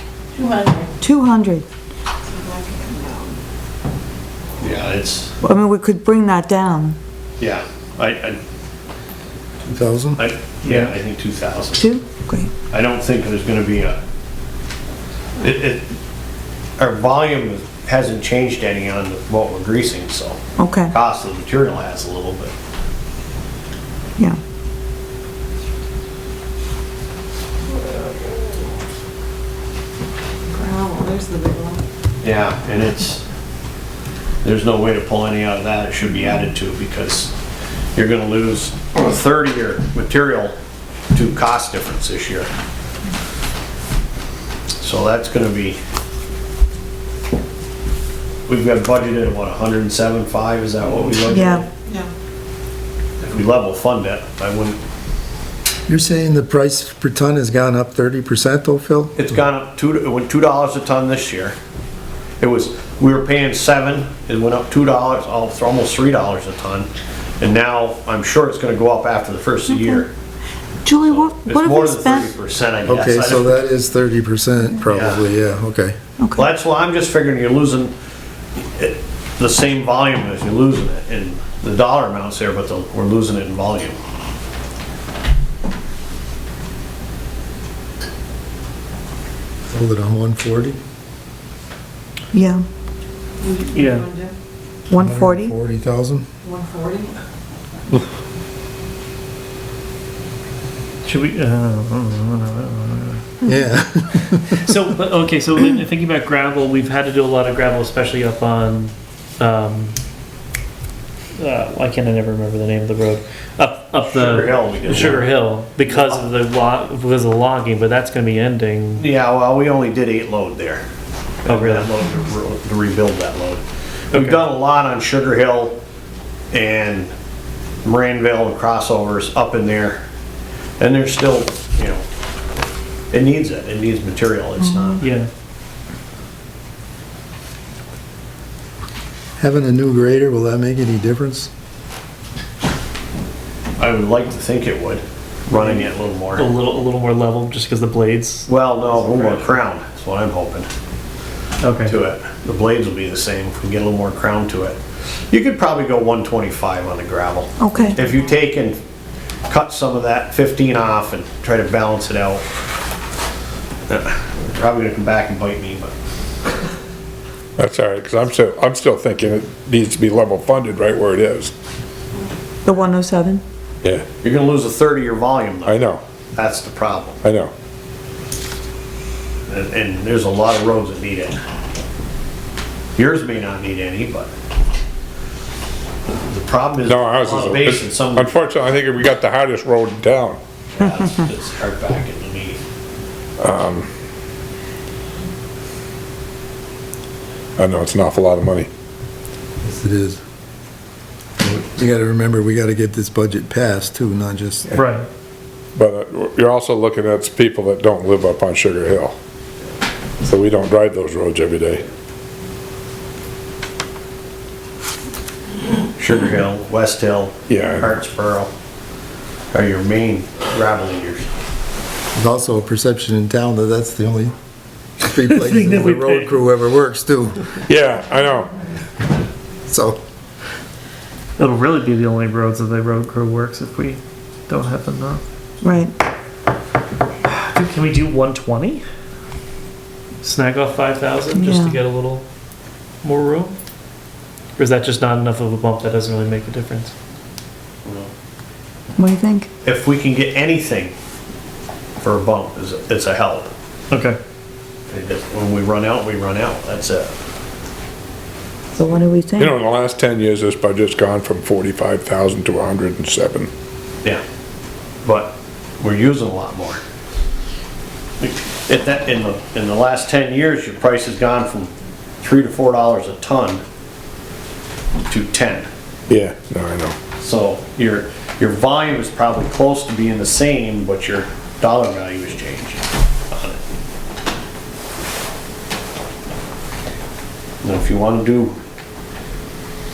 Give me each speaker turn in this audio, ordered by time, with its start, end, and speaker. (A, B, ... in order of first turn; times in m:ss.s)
0:00.3-0:00.9 A
0:01.0-0:01.6 B
0:02.3-0:03.3 A
0:04.6-0:05.3 C
0:05.4-0:07.0 B
0:07.4-0:08.4 C
0:09.7-0:10.2 D
0:10.2-0:11.8 C
0:11.8-0:12.5 B
0:12.7-0:14.0 C
0:15.4-0:15.9 C
0:16.8-0:22.5 C
0:20.6-0:20.9 B
0:30.5-0:31.8 A
0:32.2-0:33.2 C
0:34.4-0:37.3 C
0:37.9-0:40.5 C
0:41.1-0:42.5 C
0:44.8-0:45.8 C
0:48.5-0:51.7 C
0:51.3-0:51.6 B
0:53.2-0:54.8 C
0:55.9-0:59.2 D
0:59.2-1:01.6 C
1:02.4-1:06.9 C
1:07.4-1:10.1 C
1:10.8-1:12.3 B
1:11.1-1:13.6 C
1:12.8-1:15.9 D
1:14.9-1:15.2 C
1:16.2-1:16.4 B
1:16.4-1:17.9 C
1:18.6-1:24.0 C
1:29.7-1:30.8 D
1:32.3-1:32.6 B
1:33.4-1:34.3 A
1:33.7-1:34.1 E
1:34.9-1:35.5 B
1:35.0-1:36.2 D
1:36.4-1:37.1 A
1:41.0-1:43.2 E
1:43.4-1:44.5 D
1:44.5-1:49.9 E
1:51.4-1:59.0 E
1:54.0-1:55.3 C
1:55.8-1:56.2 C
1:59.0-2:00.8 C
2:01.4-2:05.8 C
2:01.4-2:01.9 E
2:04.1-2:04.4 E
2:06.5-2:07.1 C
2:07.8-2:10.0 C
2:10.8-2:12.0 C
2:13.1-2:15.1 C
2:15.0-2:15.3 E
2:19.4-2:21.5 D
2:23.8-2:26.5 C
2:25.6-2:29.6 E
2:28.5-2:30.7 C
2:31.6-2:31.9 E
2:31.8-2:34.8 C
2:35.3-2:38.8 C
2:37.6-2:38.0 B
2:39.5-2:42.4 C
2:43.9-2:45.9 C
2:47.6-2:51.5 F
2:52.6-2:53.4 B
2:54.2-2:55.7 C
2:55.6-2:56.0 F
2:56.3-2:57.2 C
2:57.2-2:57.5 F
2:59.5-3:01.4 C
3:03.0-3:04.3 C
3:06.1-3:08.4 C
3:06.8-3:10.4 F
3:10.7-3:12.6 C
3:13.4-3:13.9 F
3:17.6-3:18.7 F
3:19.6-3:20.2 D
3:21.4-3:24.7 D
3:24.7-3:25.1 E
3:25.8-3:29.2 F
3:30.2-3:31.8 F
3:36.0-3:38.5 C
3:37.5-3:37.9 F
3:39.5-3:41.3 C
3:42.1-3:44.3 D
3:45.0-3:47.4 D
3:45.1-3:46.3 E
3:47.7-3:48.5 F
3:49.7-3:50.0 D
3:51.4-3:55.2 E
3:55.6-3:55.9 B
3:57.3-3:58.8 E
4:00.2-4:02.3 E
4:01.3-4:01.8 B
4:03.0-4:03.6 E
4:04.6-4:06.9 E
4:07.8-4:08.1 C
4:09.0-4:09.5 B
4:09.6-4:10.9 C
4:12.0-4:13.5 C
4:13.9-4:14.2 E
4:14.9-4:17.1 C
4:18.7-4:19.6 B
4:19.4-4:23.5 F
4:25.0-4:26.8 C
4:28.2-4:33.6 C
4:35.1-4:35.7 C
4:36.1-4:37.0 F
4:37.2-4:43.6 C
4:47.6-4:48.6 C